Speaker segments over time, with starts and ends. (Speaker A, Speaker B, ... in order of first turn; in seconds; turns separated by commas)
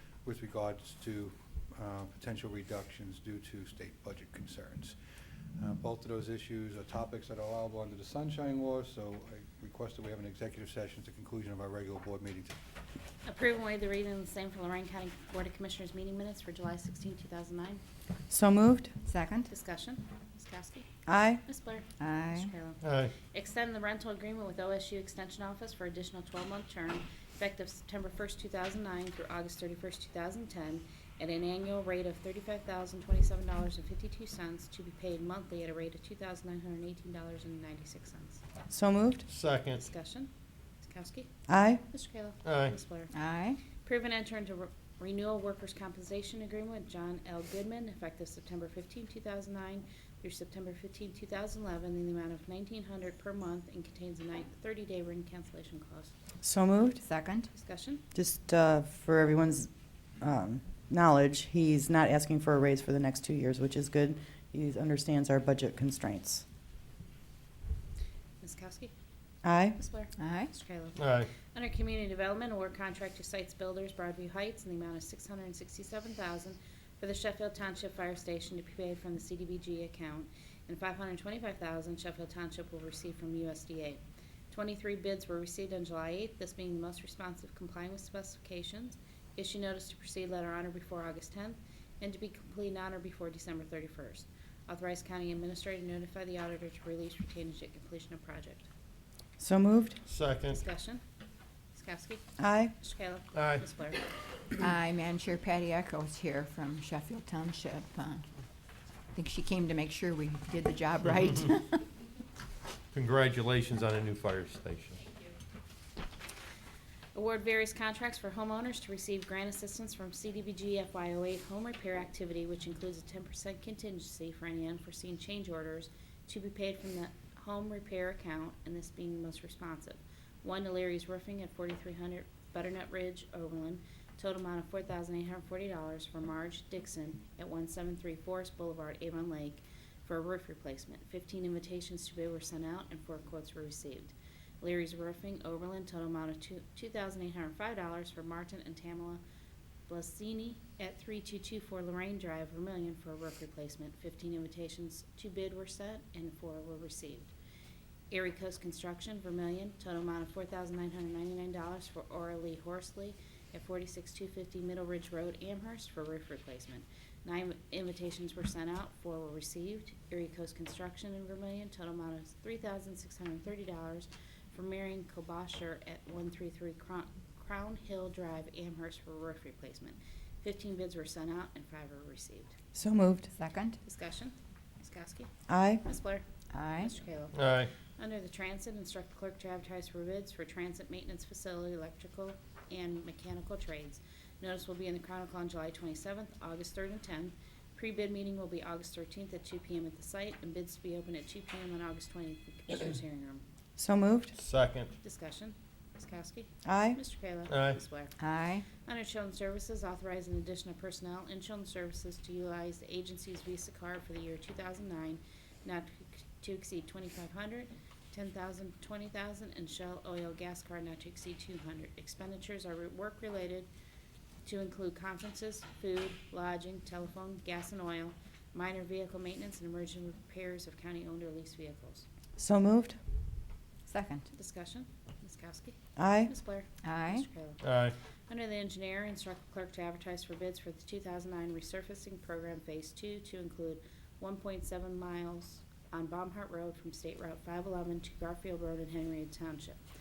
Speaker A: 0.2-4.9, Speaker A: 5.6-12.6, Speaker B: 13.2-17.8, Speaker C: 18.3-18.9, Speaker D: 19.0-19.5, Speaker B: 19.5-20.9, Speaker C: 21.1-21.4, Speaker B: 21.4-38.4, Speaker D: 22.0-22.5, Speaker E: 22.8-23.1, Speaker C: 38.7-39.2, Speaker E: 39.3-39.8, Speaker B: 39.7-40.3, Speaker B: 40.8-41.3, Speaker C: 41.5-41.8, Speaker B: 41.8-43.1, Speaker E: 42.4-42.7, Speaker D: 43.1-43.6, Speaker B: 43.8-56.1, Speaker C: 56.4-57.0, Speaker D: 57.0-57.5, Speaker B: 57.5-58.0, Speaker C: 58.1-59.7, Speaker C: 60.2-66.4, Speaker B: 68.4-68.9, Speaker C: 69.4-69.8, Speaker B: 69.7-84.0, Speaker D: 70.2-70.5, Speaker E: 71.0-71.3, Speaker B: 84.5-98.7, Speaker C: 99.4-100.0, Speaker E: 100.1-100.6, Speaker B: 100.5-101.0, Speaker B: 101.7-104.0, Speaker C: 102.4-102.7, Speaker E: 103.3-103.6, Speaker D: 104.6-108.2, Speaker D: 109.1-111.8, Speaker E: 112.9-115.0, Speaker B: 117.1-149.2, Speaker B: 149.9-157.3, Speaker B: 158.1-182.5, Speaker C: 182.7-183.3, Speaker D: 183.3-183.8, Speaker B: 183.8-185.3, Speaker C: 185.5-185.8, Speaker B: 185.8-186.2, Speaker D: 186.5-186.9, Speaker B: 186.8-187.4, Speaker E: 187.3-187.7, Speaker B: 188.0-203.4, Speaker C: 203.8-204.3, Speaker E: 204.3-204.9, Speaker B: 205.0-208.1, Speaker C: 206.6-207.0, Speaker E: 207.5-207.8, Speaker D: 208.2-208.7, Speaker B: 208.8-223.7, Speaker B: 224.4-232.0, Speaker C: 232.4-233.0, Speaker D: 233.9-234.3, Speaker B: 234.3-237.6, Speaker C: 236.0-236.3, Speaker D: 236.8-237.3, Speaker E: 237.6-237.9, Speaker B: 238.3-249.8